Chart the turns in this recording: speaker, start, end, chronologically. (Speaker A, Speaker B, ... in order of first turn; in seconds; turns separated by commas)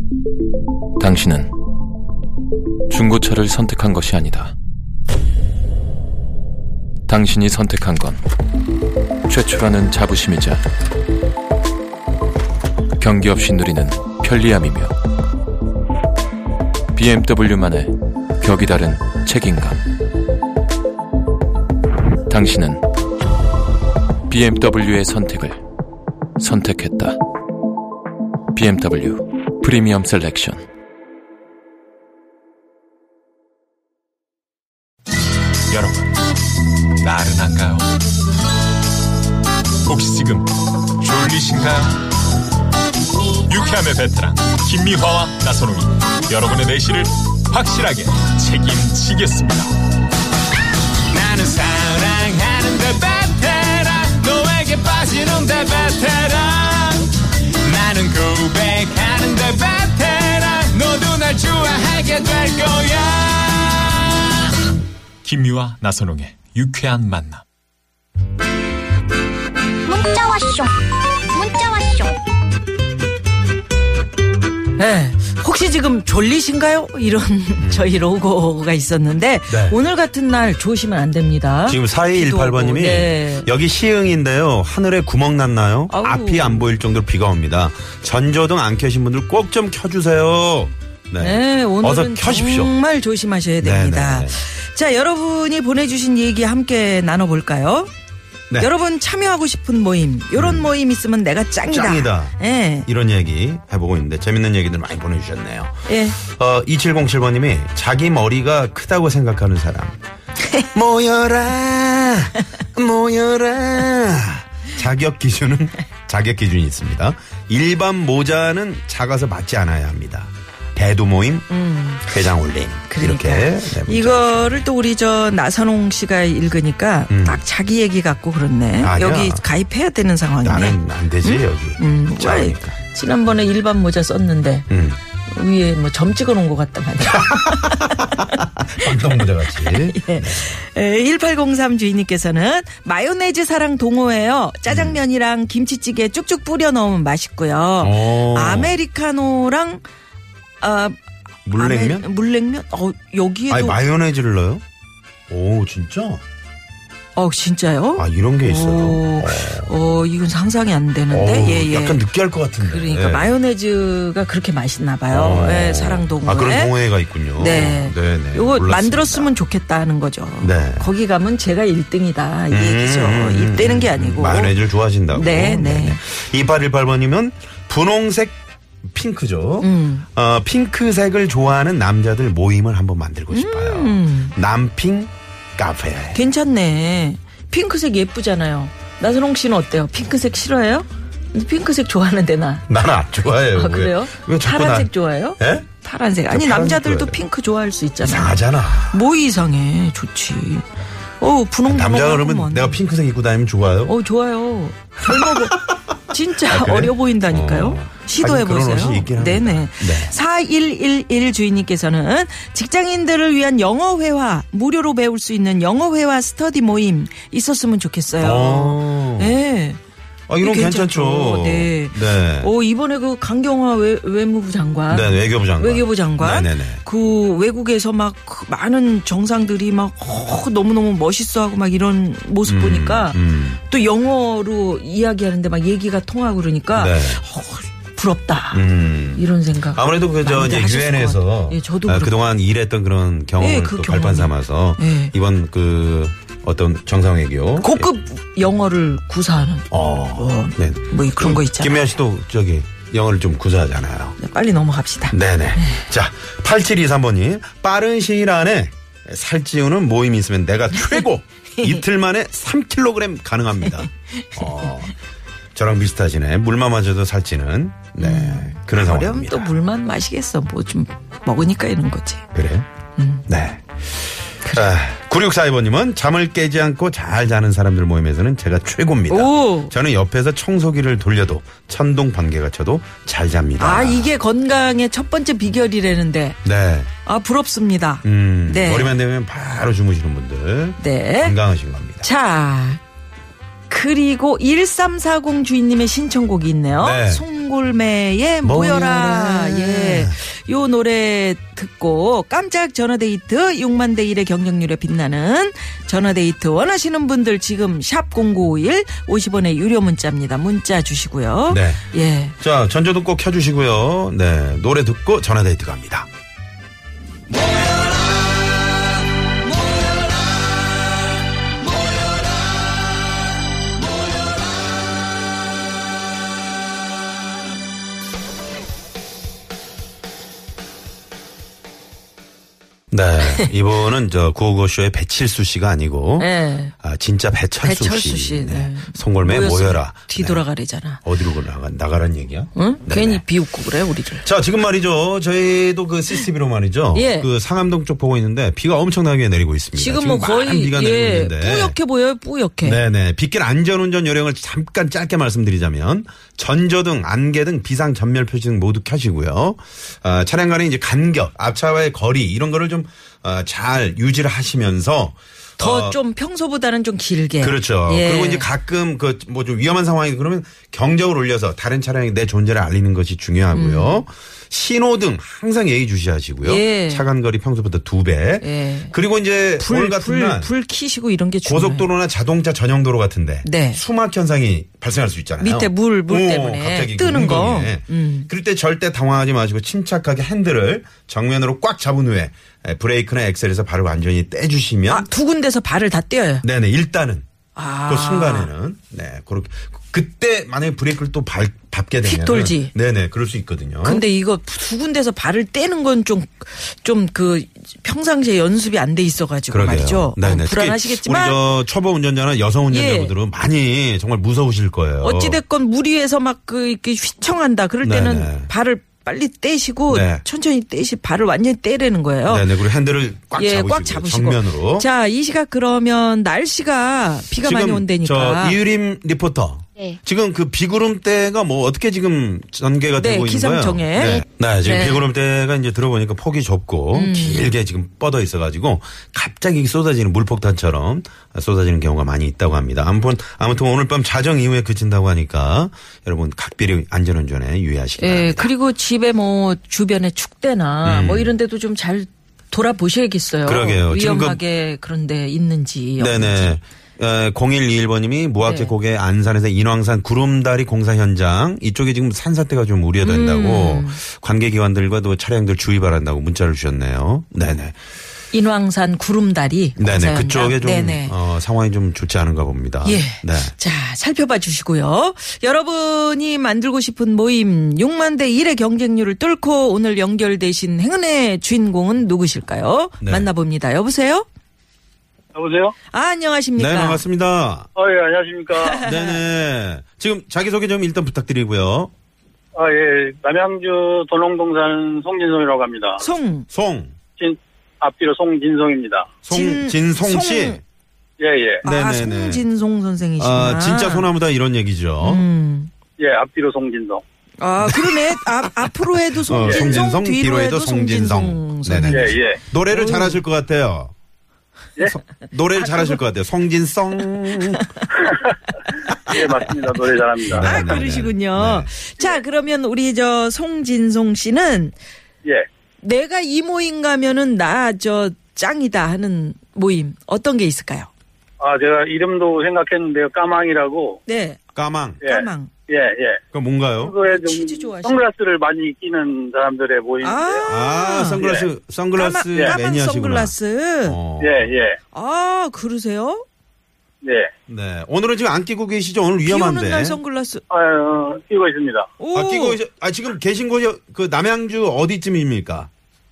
Speaker A: 1.0-1.5, Speaker A: 2.9-4.5, Speaker A: 7.1-8.2, Speaker A: 9.3-10.6, Speaker A: 13.0-14.9, Speaker A: 16.9-19.8, Speaker A: 22.3-22.8, Speaker A: 24.3-25.6, Speaker A: 26.4-27.2, Speaker A: 28.5-30.7, Speaker B: 35.7-36.1, Speaker B: 37.0-37.9, Speaker B: 39.9-40.5, Speaker B: 41.0-42.0, Speaker B: 43.4-49.7, Speaker B: 51.1-64.0, Speaker B: 65.2-67.4, Speaker C: 69.8-72.2, Speaker D: 74.8-83.5, Speaker E: 77.6-78.1, Speaker E: 79.5-79.8, Speaker E: 81.7-92.7, Speaker D: 85.9-86.7, Speaker D: 91.2-97.9, Speaker E: 93.6-94.4, Speaker D: 98.6-102.9, Speaker E: 100.3-100.7, Speaker E: 101.7-110.0, Speaker D: 105.9-106.2, Speaker E: 110.7-121.5, Speaker D: 121.5-122.2, Speaker E: 122.0-124.7, Speaker D: 122.9-134.7, Speaker E: 127.1-127.4, Speaker E: 128.8-129.4, Speaker E: 130.4-132.8, Speaker E: 134.7-135.0, Speaker D: 135.2-149.8, Speaker E: 137.1-140.6, Speaker E: 144.7-145.0, Speaker E: 147.8-148.8, Speaker D: 150.6-151.0, Speaker E: 151.4-152.1, Speaker D: 151.5-153.8, Speaker E: 153.5-154.6, Speaker E: 155.3-156.2, Speaker D: 157.2-162.0, Speaker E: 158.0-159.7, Speaker E: 161.1-163.3, Speaker D: 162.6-166.8, Speaker E: 165.1-169.3, Speaker D: 167.4-176.0, Speaker E: 170.4-170.9, Speaker E: 172.5-186.2, Speaker D: 179.6-180.1, Speaker D: 183.3-184.3, Speaker D: 186.1-192.7, Speaker E: 192.7-195.7, Speaker D: 193.5-200.7, Speaker E: 196.3-197.2, Speaker E: 198.0-199.0, Speaker D: 201.2-202.8, Speaker E: 201.7-203.9, Speaker D: 203.9-219.8, Speaker E: 205.1-205.8, Speaker E: 206.4-210.1, Speaker E: 218.2-219.4, Speaker E: 220.3-222.5, Speaker D: 220.4-242.2, Speaker E: 224.9-226.8, Speaker E: 232.4-233.6, Speaker E: 236.7-237.2, Speaker E: 238.5-247.9, Speaker D: 243.4-245.1, Speaker D: 247.6-251.8, Speaker E: 249.7-254.2, Speaker D: 254.2-255.9, Speaker E: 255.1-264.9, Speaker D: 260.7-261.0, Speaker D: 264.2-264.7, Speaker E: 265.6-269.6, Speaker D: 268.0-272.3, Speaker E: 272.3-272.7, Speaker D: 273.0-273.3, Speaker E: 273.3-273.6, Speaker E: 274.4-284.1, Speaker D: 279.1-279.7, Speaker D: 283.6-286.4, Speaker E: 286.4-286.9, Speaker D: 287.0-288.9, Speaker E: 288.0-292.1, Speaker D: 290.8-291.4, Speaker D: 292.0-292.8, Speaker D: 293.7-312.4, Speaker E: 296.8-297.3, Speaker E: 298.4-300.2, Speaker E: 311.5-311.8, Speaker E: 312.4-316.1, Speaker E: 332.9-340.5, Speaker D: 336.2-336.7, Speaker D: 337.6-341.0, Speaker E: 341.0-343.2, Speaker D: 342.6-344.3, Speaker E: 344.2-351.8, Speaker D: 346.9-347.3, Speaker D: 349.8-352.8, Speaker E: 352.6-366.0, Speaker D: 365.6-368.5, Speaker E: 367.4-380.5, Speaker D: 373.5-374.0, Speaker D: 376.4-377.1, Speaker D: 378.4-378.9, Speaker D: 379.6-381.9, Speaker E: 381.4-395.1, Speaker D: 383.4-383.8, Speaker D: 385.4-388.3, Speaker D: 394.9-396.4, Speaker E: 396.4-397.2, Speaker D: 397.6-398.5, Speaker E: 397.8-404.1, Speaker D: 402.0-402.7, Speaker D: 403.8-411.4, Speaker E: 409.5-415.4, Speaker D: 412.7-413.1, Speaker D: 415.0-422.5, Speaker E: 417.8-418.5, Speaker E: 419.9-420.2, Speaker E: 422.3-424.9, Speaker D: 423.4-428.6, Speaker E: 427.4-448.5, Speaker D: 433.0-435.1, Speaker D: 436.9-437.5, Speaker D: 448.0-456.6, Speaker E: 450.8-451.3, Speaker E: 453.5-454.4, Speaker E: 456.0-467.8, Speaker D: 458.4-458.8, Speaker D: 463.0-464.0, Speaker D: 468.3-471.2, Speaker E: 469.8-473.6, Speaker D: 472.8-484.3, Speaker E: 483.0-483.3, Speaker F: 485.4-485.7, Speaker D: 485.9-487.1, Speaker E: 486.6-487.7, Speaker F: 487.8-488.8, Speaker D: 488.6-489.2, Speaker E: 488.8-491.9, Speaker F: 492.6-496.0, Speaker D: 496.0-496.5, Speaker E: 496.5-496.9, Speaker F: 497.2-499.1, Speaker E: 499.2-500.6, Speaker D: 499.3-500.6, Speaker F: 501.2-501.6, Speaker D: 501.6-504.1, Speaker E: 501.6-502.4, Speaker E: 503.2-505.3, Speaker D: 505.0-505.7, Speaker F: 506.0-507.0, Speaker D: 507.4-512.2, Speaker E: 507.7-508.0, Speaker E: 509.2-513.9, Speaker F: 509.4-509.8, Speaker F: 511.9-512.4, Speaker D: 512.7-513.2, Speaker E: 514.8-517.6, Speaker D: 515.6-516.0, Speaker D: 517.3-517.9, Speaker F: 519.1-520.8, Speaker E: 520.3-521.7, Speaker D: 520.4-524.8, Speaker D: 525.8-530.9, Speaker F: 531.4-534.0, Speaker D: 534.1-534.4, Speaker E: 534.5-535.0, Speaker F: 535.0-536.2, Speaker D: 535.0-535.5, Speaker E: 536.3-537.0, Speaker F: 536.8-540.5, Speaker D: 537.0-538.0, Speaker D: 540.0-541.2, Speaker E: 540.5-544.5, Speaker F: 541.2-541.5, Speaker D: 542.0-544.0, Speaker F: 544.2-544.8, Speaker D: 544.9-546.2, Speaker F: 547.0-547.3, Speaker E: 547.5-550.0, Speaker D: 549.2-550.4, Speaker F: 550.5-551.9, Speaker D: 552.0-552.6, Speaker E: 552.1-555.7